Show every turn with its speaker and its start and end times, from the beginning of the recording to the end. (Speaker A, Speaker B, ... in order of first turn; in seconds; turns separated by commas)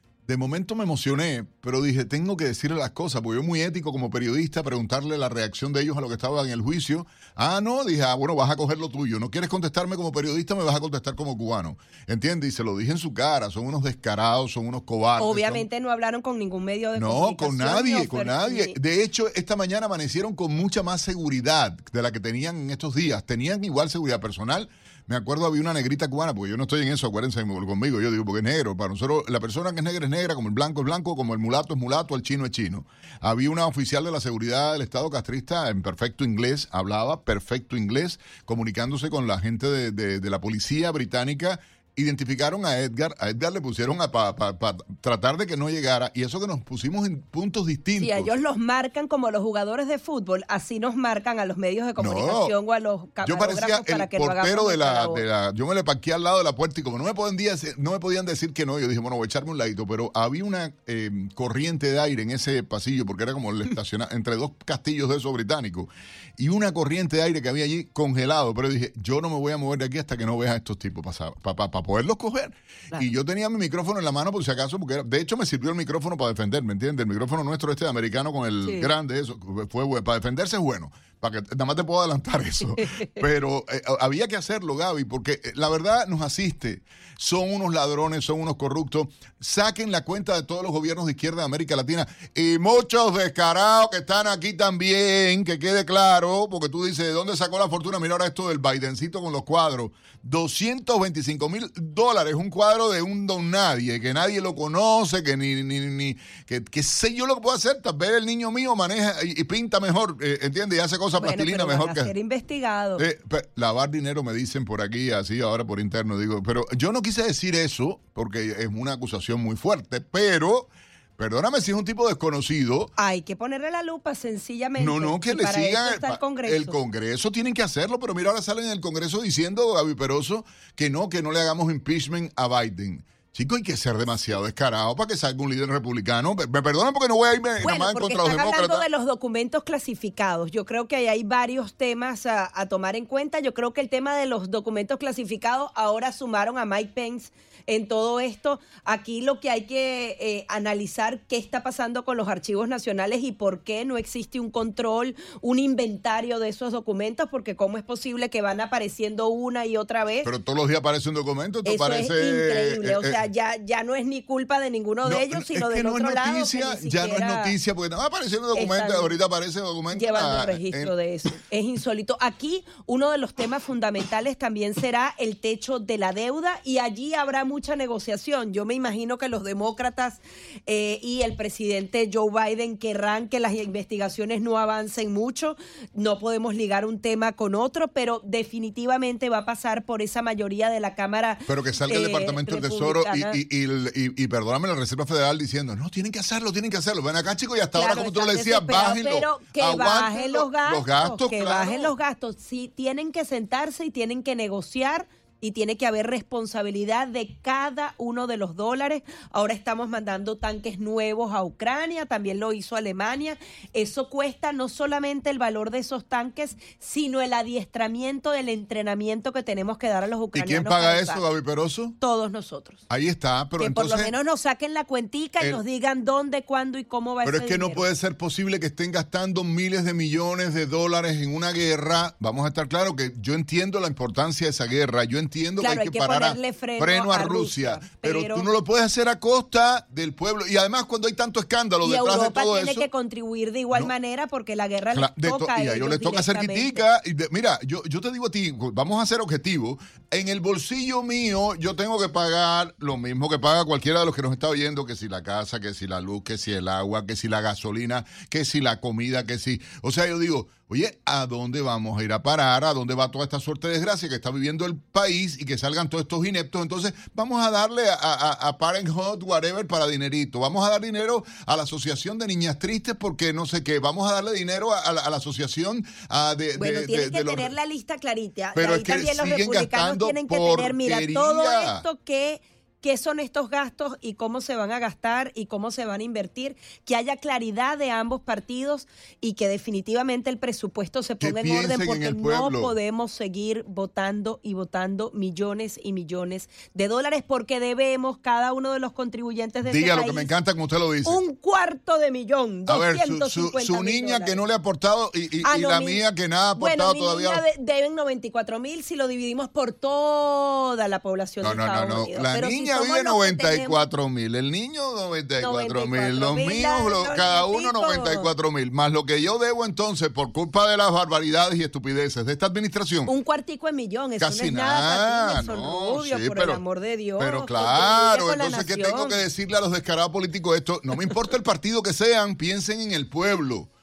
Speaker A: 0.3-15.7, Speaker B: 15.2-18.8, Speaker A: 17.0-48.3, Speaker B: 48.0-55.2, Speaker A: 52.0-52.5, Speaker A: 53.2-112.1, Speaker B: 78.6-78.9, Speaker B: 111.2-113.0, Speaker A: 113.0-122.9, Speaker B: 123.0-126.8, Speaker A: 124.8-138.9, Speaker B: 137.6-160.3, Speaker A: 160.2-163.2, Speaker B: 161.7-167.6, Speaker A: 165.0-170.9, Speaker B: 168.5-169.1, Speaker B: 169.9-193.4, Speaker A: 191.5-201.9, Speaker B: 197.8-221.2, Speaker A: 220.3-222.0, Speaker B: 222.0-222.8, Speaker A: 222.9-224.1, Speaker B: 223.6-227.8, Speaker A: 227.2-242.9, Speaker B: 235.6-238.5, Speaker B: 241.8-246.8, Speaker A: 244.9-277.5, Speaker B: 276.6-300.3, Speaker A: 278.6-281.8, Speaker A: 291.2-292.7, Speaker A: 299.6-301.2, Speaker B: 301.1-304.4, Speaker A: 302.7-307.4, Speaker B: 305.4-306.0, Speaker B: 306.6-313.8, Speaker A: 311.4-323.1, Speaker B: 315.4-318.3, Speaker B: 323.1-329.2, Speaker A: 324.2-326.6, Speaker A: 327.2-333.7